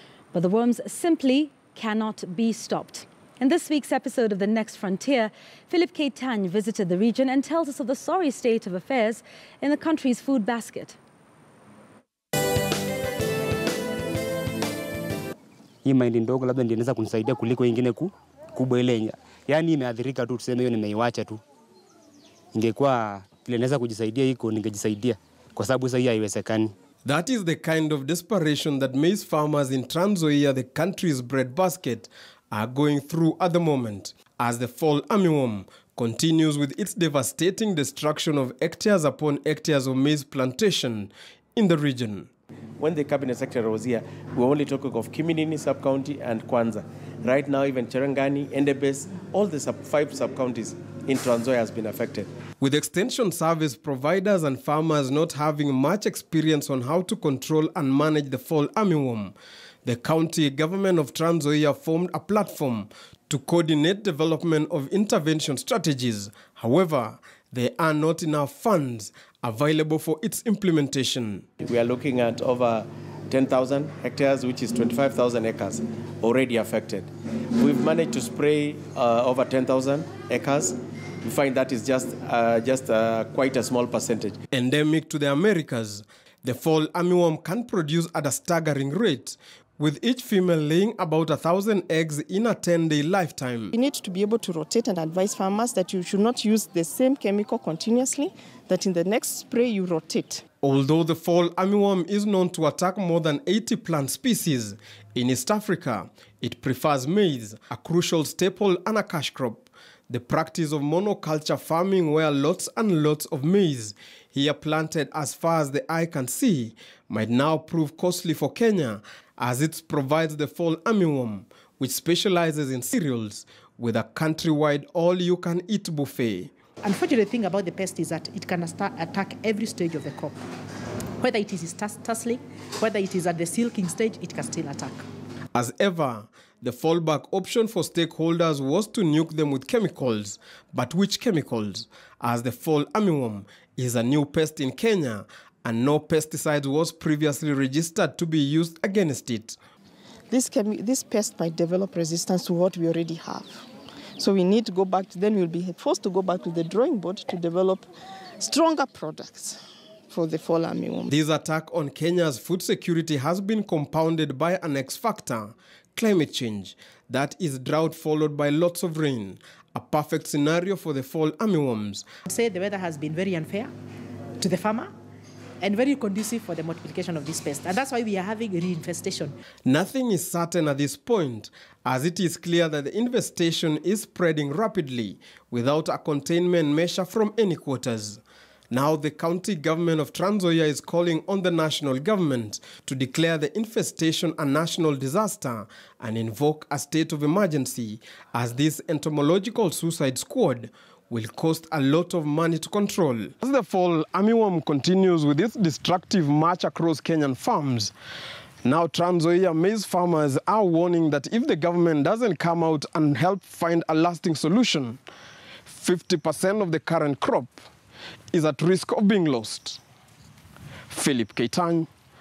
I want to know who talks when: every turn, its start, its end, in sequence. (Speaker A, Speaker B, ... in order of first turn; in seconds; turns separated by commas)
Speaker A: 0.3-11.0, Speaker B: 15.8-21.4, Speaker B: 22.5-26.7, Speaker C: 27.1-42.3, Speaker D: 42.8-52.3, Speaker C: 52.6-59.3, Speaker C: 59.9-71.5, Speaker D: 71.6-84.4, Speaker C: 84.5-93.7, Speaker E: 93.7-100.4, Speaker C: 100.6-126.5, Speaker F: 126.8-130.4, Speaker F: 131.2-135.0, Speaker C: 135.5-149.6, Speaker E: 150.3-153.6, Speaker E: 154.2-157.9, Speaker E: 158.4-161.1, Speaker C: 161.1-172.1, Speaker F: 172.3-173.7, Speaker F: 174.4-174.9, Speaker F: 175.6-179.4, Speaker C: 179.7-207.9, Speaker C: 208.6-215.0, Speaker C: 215.7-217.5, Speaker C: 218.3-219.8, Speaker C: 220.9-221.9